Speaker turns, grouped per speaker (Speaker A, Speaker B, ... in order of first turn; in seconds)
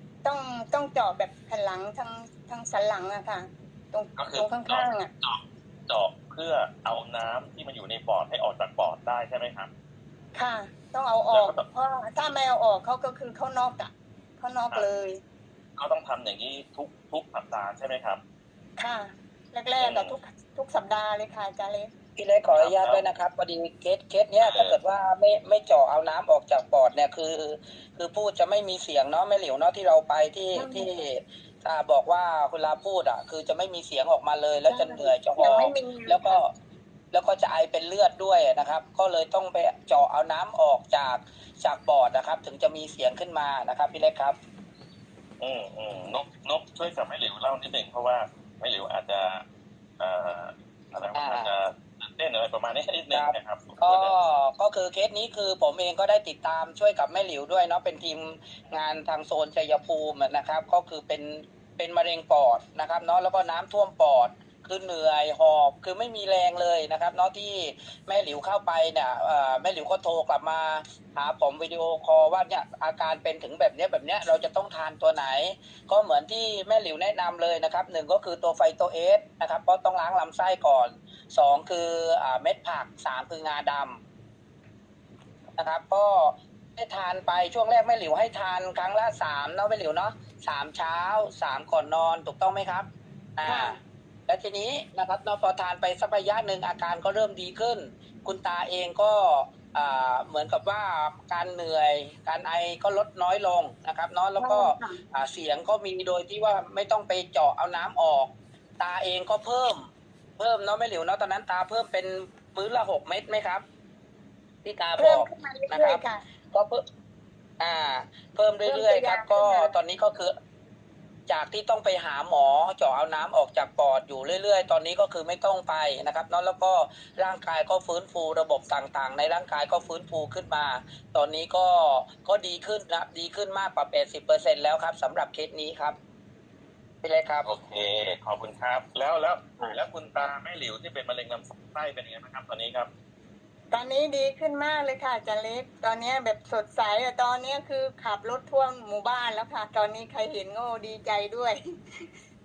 Speaker A: 0.2-5.1, 10.3-15.2, 18.8-21.9, 30.5-30.9, 34.7-36.4, 93.5-93.8, 104.4-105.0, 115.0-116.2, 118.6-119.7, 143.7-152.1
Speaker B: 4.2-9.7, 11.3-11.6, 15.8-18.2, 19.8-20.2, 22.5-23.1, 24.4-24.8, 45.4-49.4, 50.0-54.1, 137.4-142.9
Speaker C: 22.1-36.5, 37.1-44.4, 51.1-51.5, 53.1-84.0, 85.5-113.6, 114.6-116.8, 117.6-120.3, 121.3-135.9, 137.0-137.5